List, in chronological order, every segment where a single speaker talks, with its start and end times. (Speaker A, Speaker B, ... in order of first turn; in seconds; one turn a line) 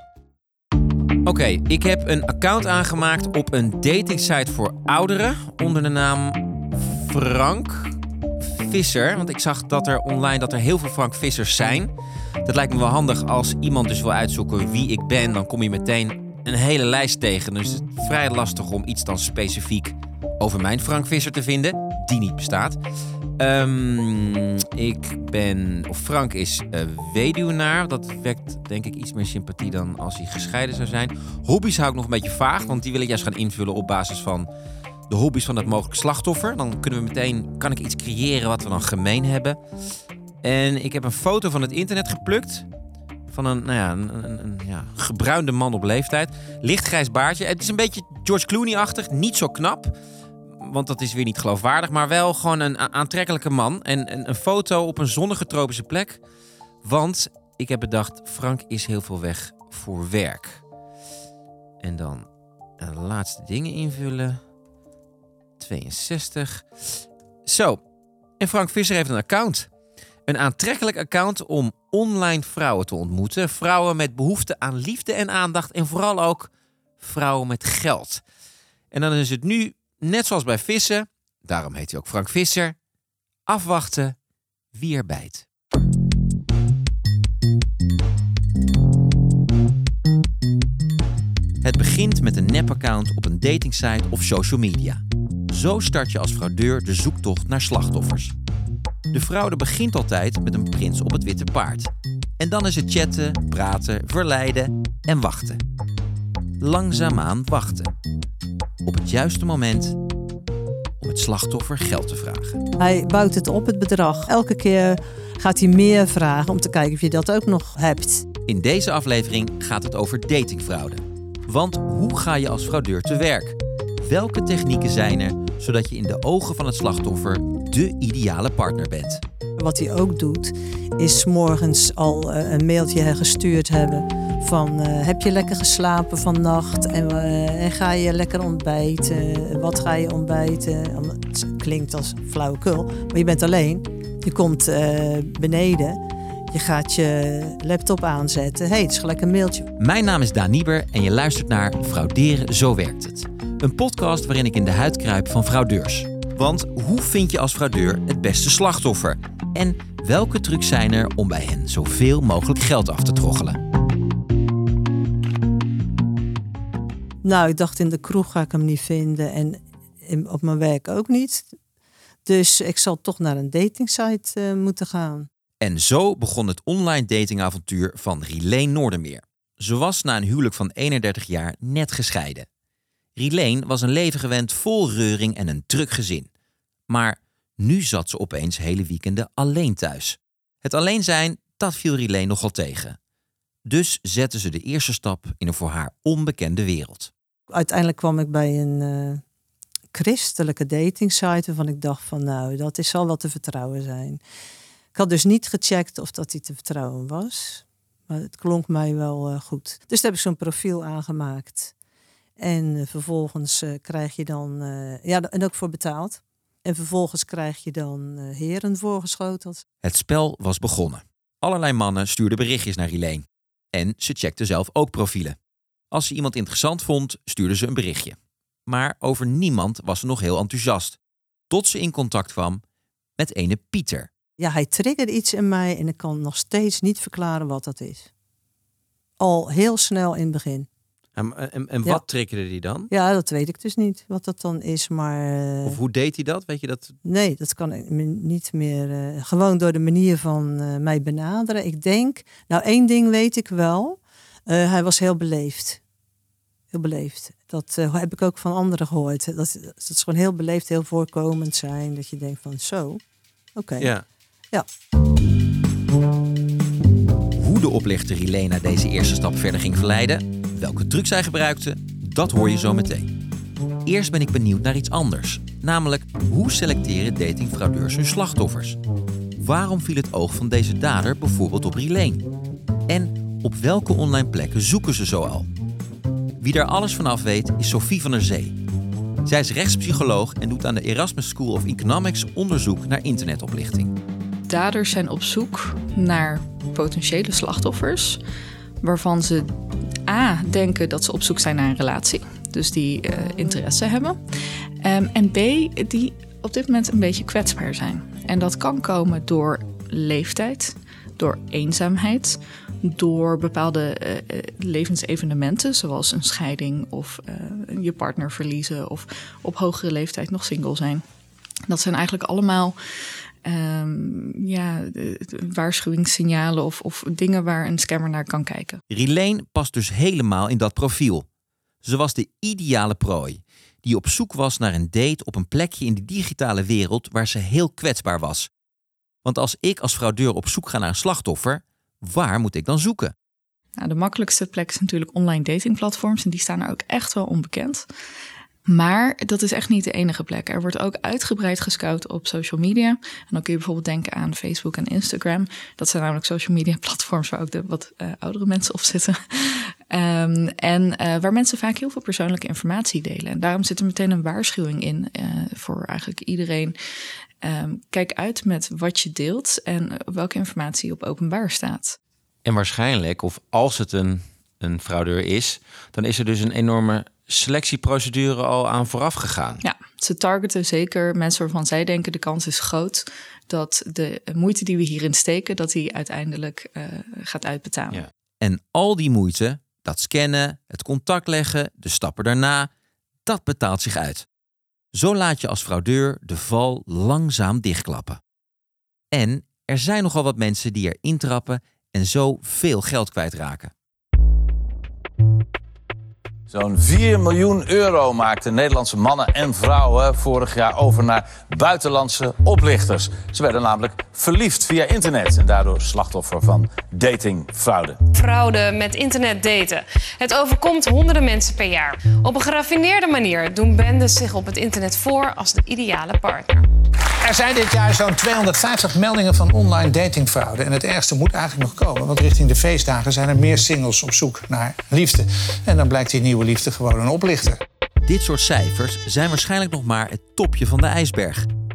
Speaker A: 1.2-11.9
Speaker A: 12.4-22.8
Speaker A: 23.4-34.5
Speaker A: 35.1-39.6
Speaker A: 40.4-42.7
Speaker A: 43.3-50.0
Speaker A: 50.6-56.2
Speaker A: 56.8-60.6
Speaker A: 61.8-62.3
Speaker A: 62.8-64.4
Speaker A: 65.6-67.8
Speaker A: 68.4-69.7
Speaker A: 70.2-78.2
Speaker A: 78.9-82.7
Speaker A: 83.5-84.2
Speaker A: 84.7-85.5
Speaker A: 91.6-98.3
Speaker A: 99.1-105.6
Speaker A: 106.6-107.9
Speaker A: 108.8-110.0
Speaker A: 111.0-112.6
Speaker B: 112.8-118.3
Speaker A: 118.5-129.2
Speaker B: 129.6-149.7
Speaker A: 149.8-163.6
Speaker B: 167.2-171.5
Speaker B: 172.2-175.3
Speaker A: 175.6-182.5
Speaker A: 183.2-186.3
Speaker A: 186.9-193.0
Speaker A: 193.7-197.1
Speaker B: 197.5-199.2
Speaker B: 199.9-204.2
Speaker B: 204.9-211.7
Speaker B: 212.4-219.6
Speaker A: 219.8-225.4
Speaker A: 225.9-231.0
Speaker A: 231.5-232.6
Speaker A: 233.2-234.1
Speaker B: 234.4-238.1
Speaker B: 239.2-240.7
Speaker A: 241.2-242.9
Speaker B: 242.9-245.8
Speaker A: 245.6-246.9
Speaker B: 247.1-255.8
Speaker B: 256.7-263.0
Speaker B: 263.6-263.9
Speaker A: 263.8-264.0
Speaker A: 267.4-273.1
Speaker A: 273.9-278.8
Speaker A: 279.4-282.2
Speaker A: 282.9-285.5
Speaker A: 286.4-288.6
Speaker A: 289.2-293.9
Speaker C: 294.5-298.2
Speaker C: 298.8-299.5
Speaker C: 300.1-304.2
Speaker C: 304.8-321.0
Speaker C: 321.7-322.8
Speaker C: 323.4-328.8
Speaker A: 328.9-331.2
Speaker A: 331.8-338.5
Speaker A: 339.2-343.1
Speaker C: 343.8-347.9
Speaker C: 348.7-366.8
Speaker C: 367.4-372.0
Speaker A: 372.4-379.6
Speaker C: 379.6-388.0
Speaker A: 387.9-392.7
Speaker A: 393.2-394.2
Speaker A: 394.9-398.2
Speaker A: 399.1-403.7
Speaker D: 406.5-418.0
Speaker E: 418.1-426.6
Speaker F: 427.2-437.6
Speaker A: 438.1-441.5